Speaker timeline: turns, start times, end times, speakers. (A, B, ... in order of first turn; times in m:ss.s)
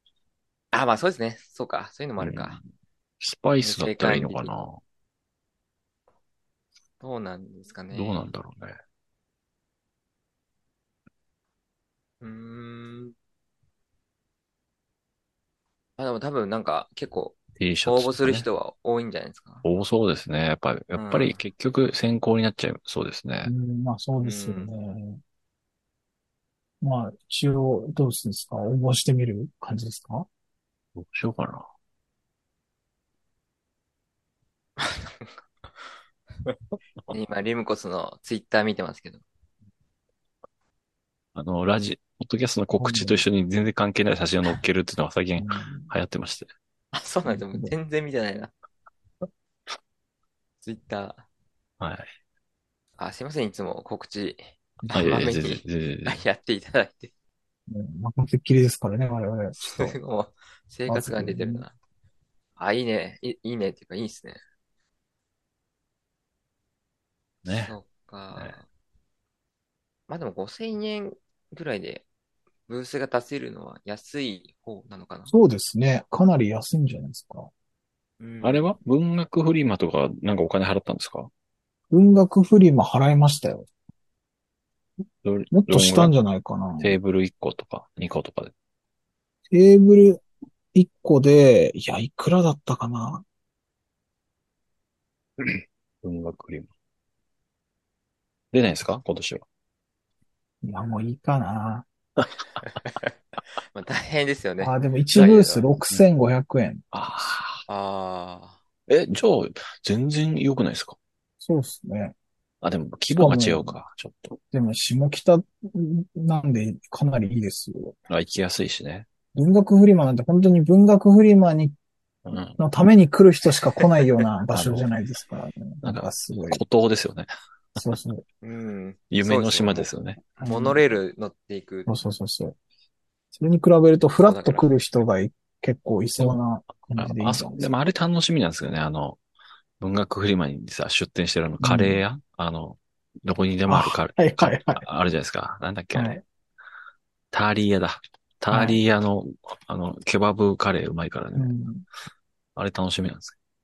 0:00.7-0:02.6 A
0:02.2-0:02.6 B
0:03.2-0:04.8 B
0:03.6-0:04.5 A
0:07.0-0:08.3 A
0:07.9-0:08.8 B
0:12.2-0:13.1 A
0:16.0-0:19.6 A
0:17.6-0:18.5 B
0:19.6-0:23.5 B
0:20.9-0:21.4 A
0:23.4-0:25.2 C
0:24.2-0:24.7 A
0:26.8-0:30.3 C
0:31.0-0:31.6 B
0:34.8-0:35.3 A
0:37.1-0:39.2 A
0:41.3-0:46.5 B
0:42.8-0:43.2 C
0:45.4-0:45.9 C
0:46.9-0:48.5 A
0:47.3-0:47.7 C
0:50.6-0:51.2 A
0:51.8-0:52.1 B
0:53.0-0:57.1 A
0:54.8-0:55.2 C
0:54.9-0:56.2 B
0:57.7-1:00.0 C
0:59.6-1:01.7 A
1:00.9-1:01.6 C
1:02.6-1:04.4 A
1:07.4-1:07.7 B
1:07.5-1:08.6 A
1:10.1-1:12.0 A
1:12.7-1:15.3 A
1:15.3-1:17.5 C
1:18.2-1:18.7 A
1:18.4-1:21.3 B
1:21.9-1:23.7 C
1:25.2-1:26.1 B
1:25.5-1:27.0 C
1:26.8-1:28.5 B
1:29.5-1:30.2 C
1:30.7-1:33.2 C
1:35.4-1:36.7 B
1:38.5-1:39.4 B
1:40.6-1:41.8 C
1:42.8-1:45.7 A
1:44.6-1:46.8 C
1:46.9-1:47.6 B
1:47.7-1:48.6 A
1:48.9-1:51.0 B
1:51.4-1:52.2 C
1:52.6-1:54.4 B
1:53.1-1:53.8 C
1:54.5-1:57.9 C
1:58.1-1:59.0 B
1:59.3-2:01.8 C
2:02.2-2:02.6 B
2:02.5-2:06.6 C
2:04.5-2:04.9 B
2:05.8-2:07.8 B
2:07.8-2:08.2 C
2:08.4-2:11.9 A
2:09.1-2:10.2 B
2:10.4-2:10.8 C
2:11.8-2:12.6 C
2:13.3-2:17.7 C
2:14.2-2:14.7 A
2:17.0-2:19.2 B
2:19.8-2:26.1 B
2:21.6-2:22.0 C
2:23.7-2:24.8 C
2:25.9-2:26.2 C
2:27.3-2:31.5 B
2:28.5-2:28.8 C
2:31.4-2:31.8 C
2:32.6-2:33.4 B